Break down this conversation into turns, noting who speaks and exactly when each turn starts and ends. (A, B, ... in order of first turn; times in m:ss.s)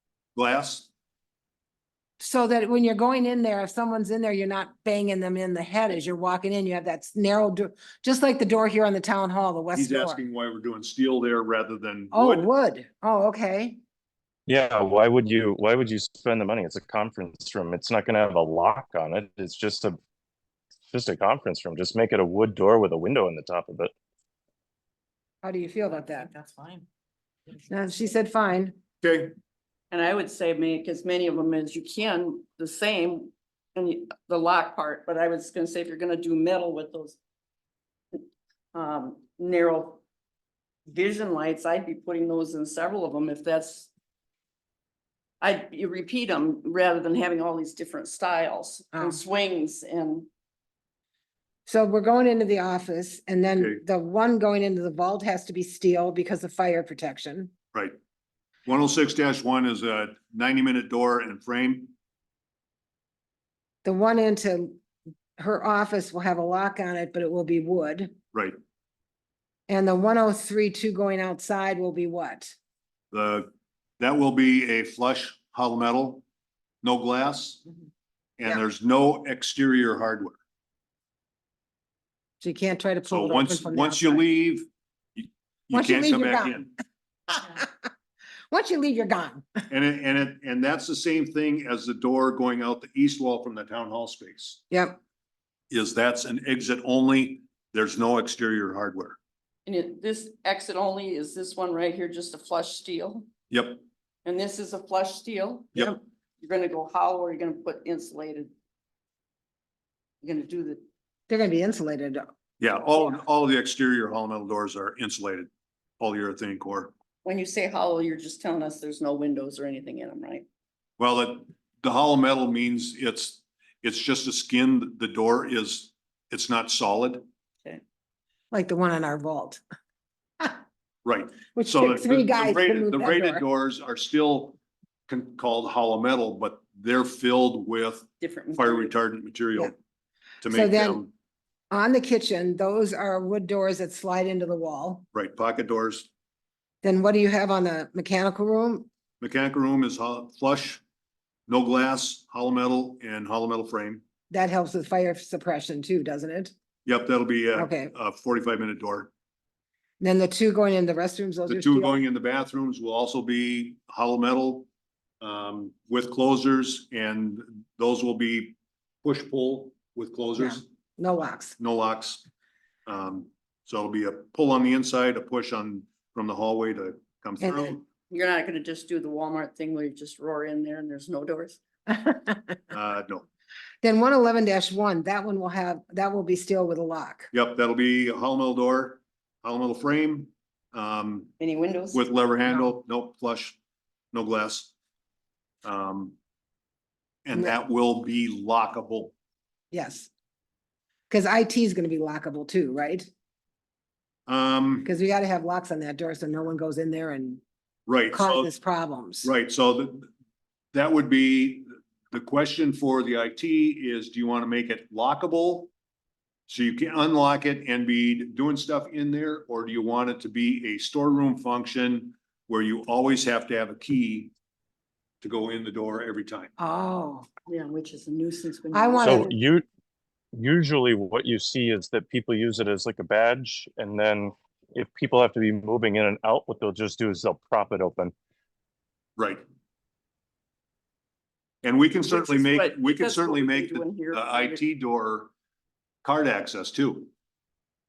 0:00.4-0:00.9 A
0:02.2-0:10.2 B
0:09.8-0:12.5 A
0:12.1-0:13.8 B
0:14.5-0:20.0 C
0:20.9-0:23.9 C
0:25.4-0:26.3 B
0:26.4-0:26.8 D
0:27.7-0:28.8 B
0:29.0-0:29.4 A
0:29.9-0:37.2 D
0:38.7-0:40.0 D
0:40.9-0:43.9 D
0:45.4-0:50.3 D
0:51.7-0:57.5 B
0:58.7-1:01.9 A
1:03.8-1:04.8 B
1:05.4-1:08.1 B
1:09.7-1:12.6 B
1:13.1-1:16.2 A
1:16.8-1:17.6 A
1:18.4-1:20.4 A
1:22.4-1:24.2 B
1:23.1-1:26.7 A
1:25.7-1:26.7 B
1:27.3-1:27.9 B
1:28.5-1:29.5 B
1:29.7-1:34.6 A
1:34.7-1:35.0 B
1:35.7-1:39.2 A
1:39.7-1:43.3 D
1:43.5-1:43.8 A
1:44.2-1:48.5 D
1:50.2-1:50.8 D
1:51.3-1:52.3 B
1:52.6-1:56.9 A
1:57.2-2:00.5 D
2:01.0-2:07.2 A
2:08.5-2:09.6 B
2:11.0-2:14.6 A
2:11.6-2:13.4 B
2:15.1-2:19.8 A
2:18.2-2:18.9 D
2:20.4-2:21.1 A
2:20.4-2:21.0 B
2:21.7-2:25.0 B
2:25.1-2:26.1 A
2:26.8-2:28.9 B
2:29.2-2:30.8 A
2:31.5-2:34.0 A
2:34.3-2:36.5 B
2:36.9-2:39.1 A
2:37.6-2:37.9 B
2:40.0-2:42.0 B
2:41.5-2:44.7 A
2:45.2-2:50.7 A
2:50.4-2:51.6 B
2:51.6-2:52.2 A
2:52.9-2:57.8 A
2:57.4-2:57.8 B
2:58.1-3:01.6 D
3:01.9-3:02.6 B
3:02.7-3:03.3 A
3:03.8-3:07.3 B
3:07.3-3:11.3 A
3:11.4-3:12.0 D
3:11.9-3:13.6 A
3:14.1-3:14.7 A
3:15.6-3:16.2 A
3:17.3-3:19.1 A
3:19.7-3:20.1 B
3:21.1-3:23.1 B
3:24.3-3:24.9 A
3:24.8-3:27.4 B
3:27.9-3:28.5 A
3:28.1-3:29.3 B
3:29.2-3:30.1 A
3:30.7-3:35.7 A
3:36.5-3:44.3 A
3:45.2-3:46.5 A
3:46.6-3:47.3 B
3:47.5-3:49.2 D
3:48.7-3:49.3 B
3:49.0-3:49.6 C
3:50.3-3:58.1 C
3:59.2-3:59.4 A
4:01.6-4:05.3 A
4:02.1-4:04.6 D
4:06.0-4:07.1 A